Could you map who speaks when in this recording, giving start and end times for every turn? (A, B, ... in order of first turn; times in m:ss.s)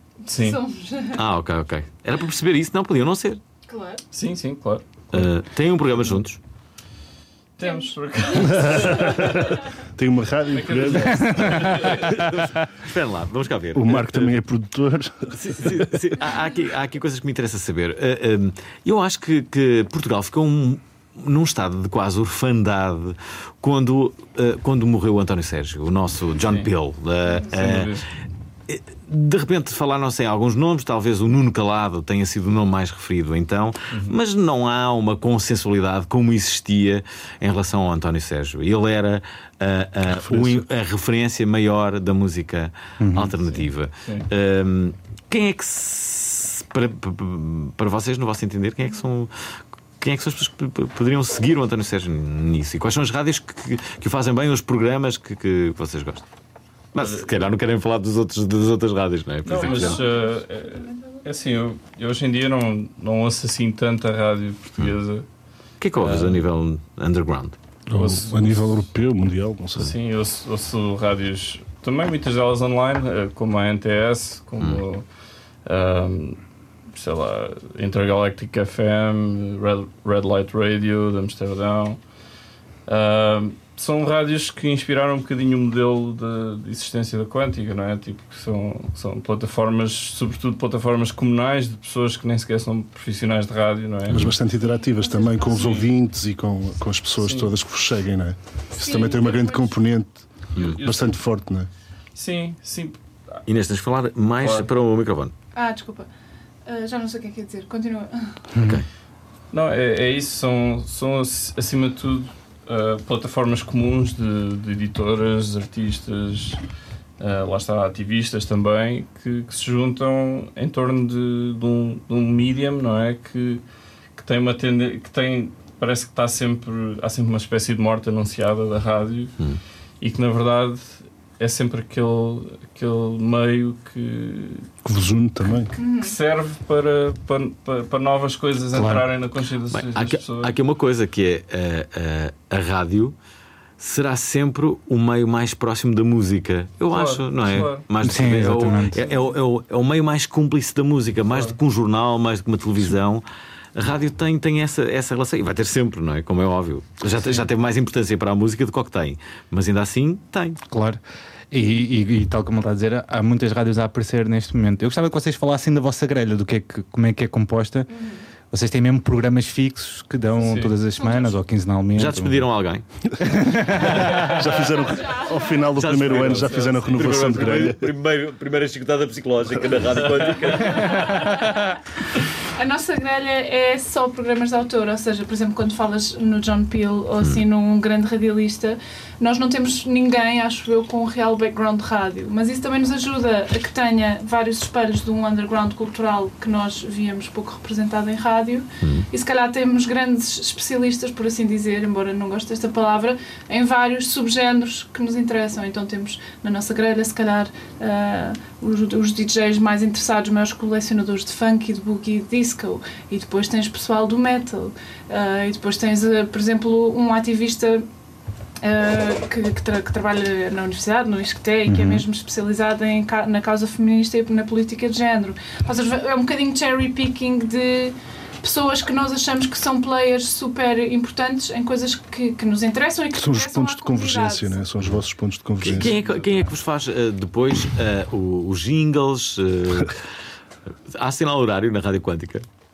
0:00.3-0:01.2 A
0:00.3-0:00.6 B
0:01.2-0:03.4 C
0:03.7-0:04.0 A
0:04.1-0:05.2 B
0:05.1-0:06.4 C
0:07.6-0:09.3 B
0:07.6-0:09.2 A
0:08.4-0:12.2 D
0:10.5-0:12.1 B
0:11.1-0:12.3 E
0:12.2-0:14.3 C
0:13.8-0:15.9 D
0:15.3-0:28.0 C
0:26.4-0:26.7 B
0:27.5-0:28.1 B
0:28.7-0:49.3 C
0:33.9-0:34.2 B
0:40.1-0:40.6 D
0:43.0-0:43.3 E
0:50.0-0:56.2 C
0:56.9-1:00.0 C
0:57.0-0:57.3 B
0:59.4-1:05.2 B
0:59.6-1:01.3 A
1:05.8-1:07.6 C
1:06.0-1:06.4 B
1:07.9-1:09.9 D
1:07.9-1:08.9 B
1:09.8-1:15.1 B
1:15.6-1:22.1 B
1:22.9-1:34.3 B
1:34.1-1:41.7 D
1:34.6-1:35.8 A
1:37.2-1:37.5 B
1:38.8-1:39.8 A
1:40.6-1:41.1 B
1:42.2-1:43.4 B
1:43.5-1:45.3 C
1:44.4-1:44.7 B
1:45.6-1:46.1 A
1:46.7-1:48.4 A
1:48.5-1:48.8 E
1:49.5-1:56.6 B
1:57.2-2:03.6 B
2:04.2-2:09.4 B
2:10.0-2:14.7 B
2:14.8-2:15.7 D
2:15.8-2:16.2 A
2:16.0-2:20.5 B
2:18.7-2:19.1 E
2:19.7-2:23.2 C
2:23.8-2:33.2 C
2:26.9-2:27.9 B
2:28.0-2:29.0 E
2:31.3-2:31.6 B
2:33.8-2:40.6 C
2:40.7-2:41.0 E
2:41.5-2:47.9 E
2:47.9-2:48.2 A
2:48.5-2:52.4 E
2:50.4-2:50.8 B
2:51.0-2:51.4 A
2:52.0-2:52.8 C
2:53.2-2:54.3 E
2:54.2-2:57.9 D
2:54.5-2:55.7 A
2:55.8-3:01.3 C
2:55.9-2:57.5 B
3:01.0-3:01.7 A
3:02.6-3:37.9 A
3:38.6-3:54.6 A
3:41.7-3:42.0 E
3:53.2-3:56.0 D
3:55.6-4:00.0 C
3:55.8-3:56.3 B
4:00.9-4:02.5 C